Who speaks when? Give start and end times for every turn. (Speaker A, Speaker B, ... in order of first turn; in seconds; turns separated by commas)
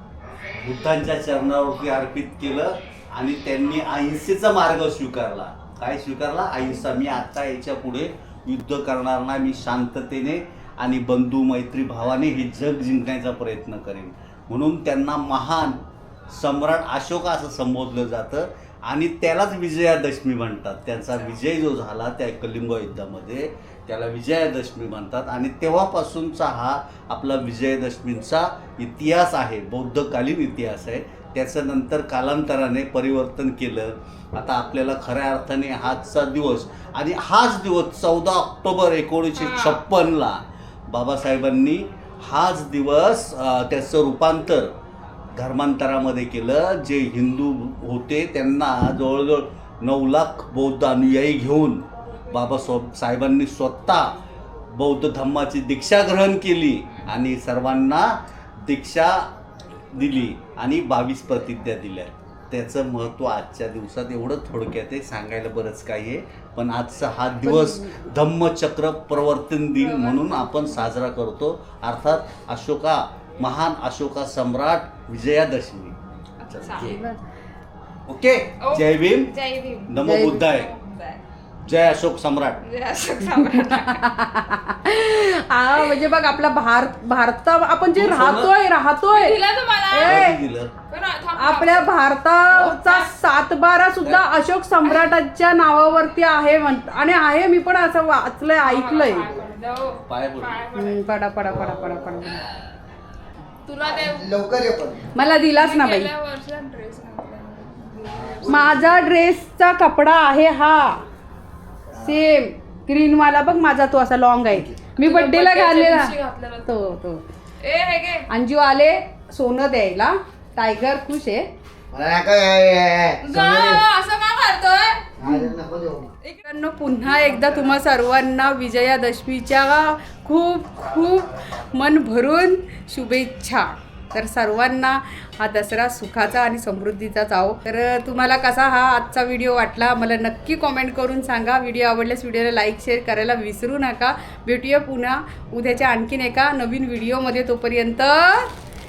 Speaker A: 0.6-44.7, Speaker B: 21.1-21.4, Speaker B: 39.4-39.8, Speaker A: 45.3-54.1, Speaker A: 54.7-58.1, Speaker A: 58.6-59.3, Speaker A: 59.9-76.0, Speaker C: 67.4-68.0, Speaker B: 69.8-70.8, Speaker B: 76.4-77.0, Speaker A: 76.5-77.0, Speaker C: 76.8-77.2, Speaker A: 78.1-79.3, Speaker B: 78.6-81.2, Speaker A: 79.9-80.7, Speaker C: 80.0-80.5, Speaker A: 81.6-82.6, Speaker B: 82.6-84.1, Speaker C: 83.3-89.4, Speaker B: 85.7-86.1, Speaker A: 88.0-88.5, Speaker B: 89.1-90.3, Speaker C: 89.9-90.4, Speaker A: 90.0-90.7, Speaker B: 90.9-91.9, Speaker C: 91.4-99.3, Speaker A: 92.5-92.8, Speaker B: 92.8-93.1, Speaker A: 94.0-94.3, Speaker B: 98.6-101.0, Speaker A: 100.1-100.6, Speaker C: 100.8-102.4, Speaker B: 103.7-104.5, Speaker D: 103.8-105.0, Speaker C: 105.1-106.1, Speaker B: 105.4-109.0, Speaker D: 108.2-108.7, Speaker C: 108.4-111.0, Speaker D: 111.9-112.2, Speaker C: 112.0-116.1, Speaker B: 115.0-116.8, Speaker C: 116.7-117.2, Speaker B: 117.6-118.3, Speaker C: 118.3-121.5, Speaker D: 121.9-123.8, Speaker B: 123.2-125.1, Speaker D: 125.2-126.1, Speaker C: 125.2-125.5, Speaker C: 126.5-148.5